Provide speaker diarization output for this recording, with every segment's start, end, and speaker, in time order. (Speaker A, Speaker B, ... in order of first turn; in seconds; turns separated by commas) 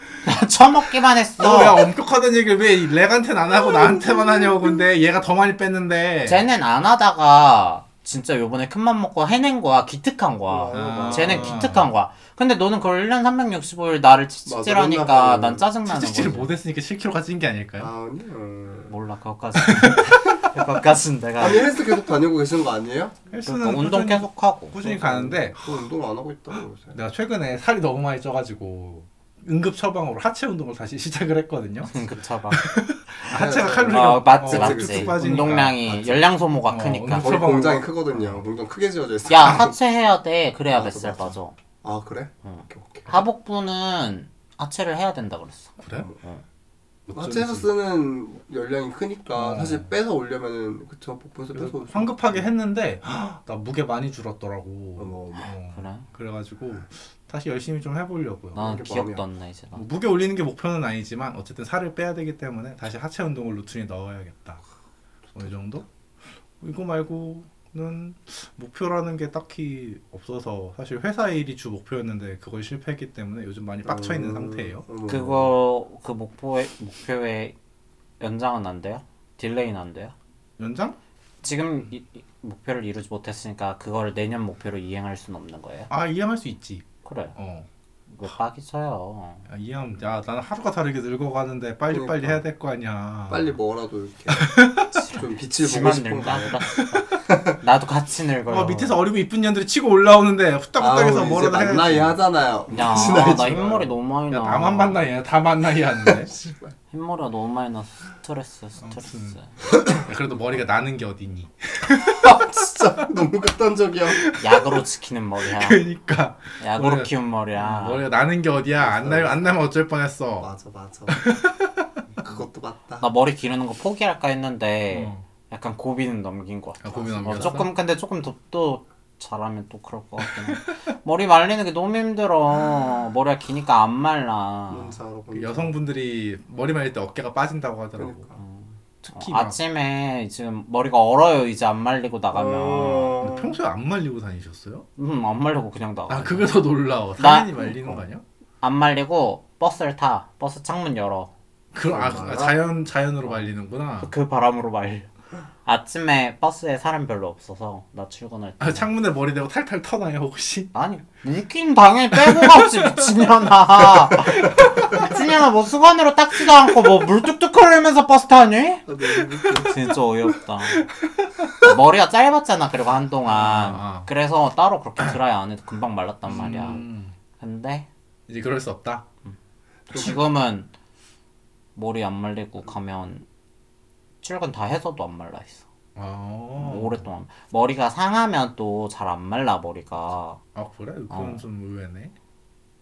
Speaker A: 0.2-1.8, Speaker B: 1.4-6.5, Speaker A: 6.2-16.5, Speaker C: 10.5-11.6, Speaker B: 10.7-11.9, Speaker C: 14.4-15.7, Speaker B: 15.8-17.9, Speaker C: 17.8-18.9, Speaker A: 18.9-21.8, Speaker B: 19.6-20.3, Speaker C: 21.4-23.2, Speaker B: 23.3-25.8, Speaker A: 23.4-24.8, Speaker C: 24.8-27.0, Speaker B: 26.9-31.9, Speaker A: 31.8-32.6, Speaker B: 32.5-38.4, Speaker A: 33.2-37.4, Speaker C: 33.3-35.5, Speaker C: 37.1-39.7, Speaker A: 39.3-41.5, Speaker C: 40.7-43.2, Speaker A: 42.4-46.4, Speaker B: 45.8-46.1, Speaker B: 47.1-47.7, Speaker C: 47.1-52.5, Speaker B: 49.3-49.9, Speaker B: 51.5-58.7, Speaker C: 55.0-55.5, Speaker A: 55.7-56.1, Speaker C: 58.5-59.2, Speaker A: 58.5-59.8, Speaker B: 59.7-64.6, Speaker B: 65.3-65.8, Speaker B: 66.6-74.8, Speaker C: 73.8-75.5, Speaker A: 75.0-77.5, Speaker A: 78.2-80.1, Speaker B: 80.6-81.0, Speaker A: 81.4-85.9, Speaker B: 85.9-87.7, Speaker A: 87.0-87.3, Speaker A: 88.1-89.5, Speaker B: 89.5-93.5, Speaker C: 91.9-92.4, Speaker C: 93.3-94.5, Speaker B: 94.3-94.9, Speaker A: 94.9-99.0, Speaker C: 95.1-96.6, Speaker B: 96.7-97.0, Speaker C: 97.3-97.6, Speaker B: 98.5-102.2, Speaker C: 100.8-103.9, Speaker A: 102.7-105.0, Speaker B: 102.8-103.7, Speaker B: 104.3-106.3, Speaker C: 106.0-106.7, Speaker A: 106.9-109.6, Speaker B: 108.8-112.3, Speaker C: 109.7-110.0, Speaker C: 111.9-114.2, Speaker B: 114.1-114.8, Speaker A: 114.4-115.8, Speaker B: 115.5-120.5, Speaker A: 116.6-118.0, Speaker C: 118.8-119.6, Speaker C: 120.4-121.2, Speaker B: 121.1-121.9, Speaker C: 122.2-123.1, Speaker A: 123.0-134.9, Speaker B: 124.9-125.2, Speaker B: 126.8-127.7, Speaker C: 126.9-127.6, Speaker B: 130.2-130.7, Speaker C: 134.7-135.8, Speaker B: 135.3-138.3, Speaker C: 138.0-138.4, Speaker A: 138.3-143.2, Speaker B: 139.0-139.6, Speaker C: 142.3-143.6, Speaker B: 143.2-144.8, Speaker A: 145.0-146.5, Speaker B: 146.1-148.2, Speaker A: 147.2-147.9, Speaker A: 148.6-151.3, Speaker B: 151.7-154.1, Speaker C: 151.9-152.6, Speaker A: 153.2-155.1, Speaker A: 155.6-158.9, Speaker B: 158.6-160.7, Speaker A: 160.7-170.8, Speaker B: 162.2-162.9, Speaker B: 163.9-165.0, Speaker C: 168.8-169.8, Speaker B: 169.2-169.6, Speaker B: 170.7-171.6, Speaker A: 171.6-176.8, Speaker B: 173.2-174.1, Speaker B: 176.3-177.1, Speaker A: 177.4-177.9, Speaker B: 178.3-179.0, Speaker C: 179.9-180.2, Speaker A: 179.9-180.7, Speaker A: 181.8-183.2, Speaker A: 184.2-185.7, Speaker B: 185.9-187.1, Speaker A: 186.6-190.4, Speaker B: 190.5-192.1, Speaker A: 191.1-191.4